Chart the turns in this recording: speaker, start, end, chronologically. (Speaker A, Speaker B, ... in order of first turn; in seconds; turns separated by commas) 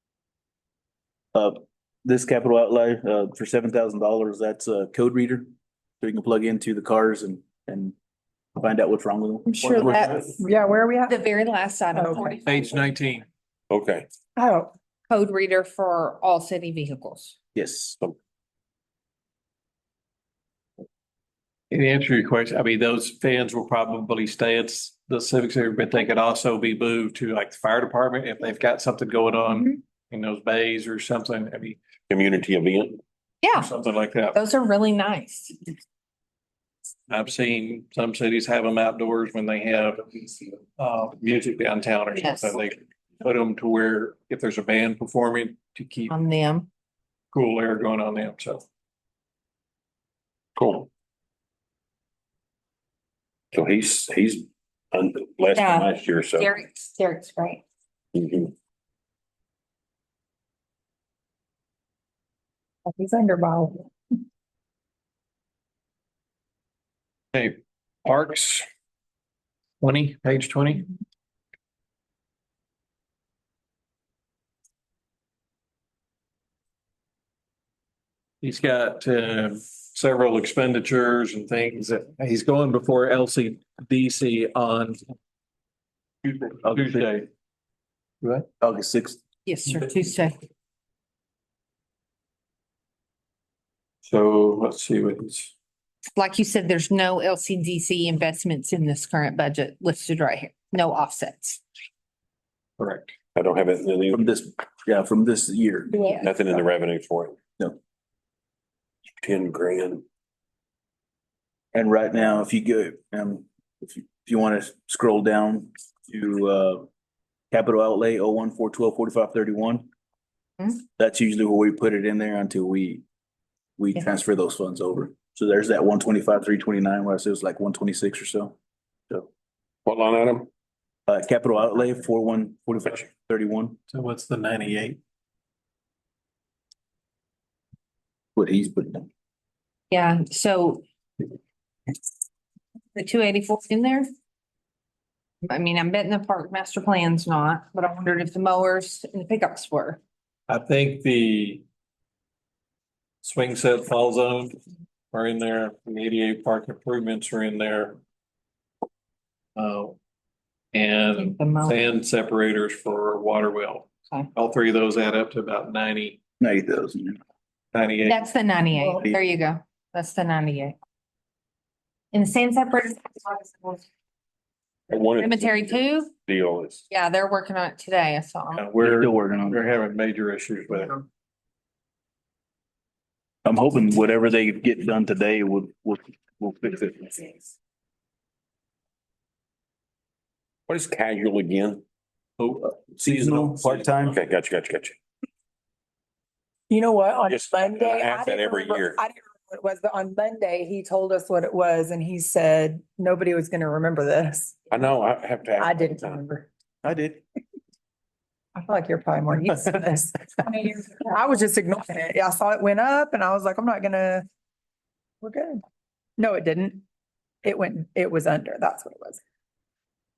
Speaker A: 1.3-5.5, Speaker A: 6.0-7.9, Speaker A: 8.6-10.0, Speaker B: 9.5-10.3, Speaker C: 10.4-11.2, Speaker B: 11.1-13.2, Speaker C: 11.9-12.4, Speaker D: 12.4-13.2, Speaker E: 13.7-14.1, Speaker C: 14.4-14.7, Speaker B: 15.1-17.4, Speaker A: 17.5-18.0, Speaker D: 21.7-31.8, Speaker E: 32.1-33.0, Speaker B: 33.4-33.8, Speaker D: 33.5-34.4, Speaker B: 34.3-35.7, Speaker D: 37.1-46.1, Speaker B: 42.2-42.5, Speaker B: 46.1-46.7, Speaker D: 47.3-48.6, Speaker E: 50.5-50.9, Speaker E: 53.5-56.5, Speaker B: 55.5-57.6, Speaker E: 58.1-58.5, Speaker C: 62.9-63.9, Speaker D: 67.3-68.6, Speaker D: 69.8-70.9, Speaker D: 78.4-85.0, Speaker D: 86.3-87.3, Speaker A: 86.6-87.1, Speaker A: 88.6-89.2, Speaker B: 89.5-90.3, Speaker D: 94.0-95.5, Speaker B: 96.1-101.6, Speaker D: 102.8-103.1, Speaker E: 103.3-104.2, Speaker A: 104.1-106.2, Speaker C: 105.9-106.2, Speaker E: 106.2-107.3, Speaker E: 109.2-110.0, Speaker A: 111.7-116.9, Speaker A: 117.5-119.8, Speaker A: 121.0-123.0, Speaker A: 123.8-128.6, Speaker E: 129.8-130.5, Speaker A: 131.1-133.8, Speaker D: 133.9-135.0, Speaker A: 138.3-139.1, Speaker B: 139.9-140.8, Speaker B: 142.9-144.1, Speaker B: 145.4-150.0, Speaker D: 150.5-151.6, Speaker D: 153.2-154.6, Speaker D: 155.1-158.0, Speaker D: 159.6-160.0, Speaker D: 160.7-166.2, Speaker B: 161.1-161.9, Speaker A: 166.4-167.2, Speaker D: 167.7-168.2, Speaker B: 168.0-170.8, Speaker B: 172.1-173.8, Speaker E: 174.9-176.8, Speaker B: 175.2-176.1, Speaker B: 176.9-178.6, Speaker D: 178.5-181.0, Speaker A: 178.8-179.6, Speaker A: 183.4-187.5, Speaker E: 190.7-191.8, Speaker D: 192.4-194.1, Speaker A: 192.9-194.2, Speaker E: 194.1-194.9, Speaker C: 196.7-204.6, Speaker E: 197.2-199.0, Speaker E: 204.7-206.2, Speaker C: 205.6-206.5, Speaker A: 206.8-207.2, Speaker C: 208.6-214.2, Speaker C: 215.2-215.6, Speaker C: 216.2-216.8, Speaker C: 217.4-219.2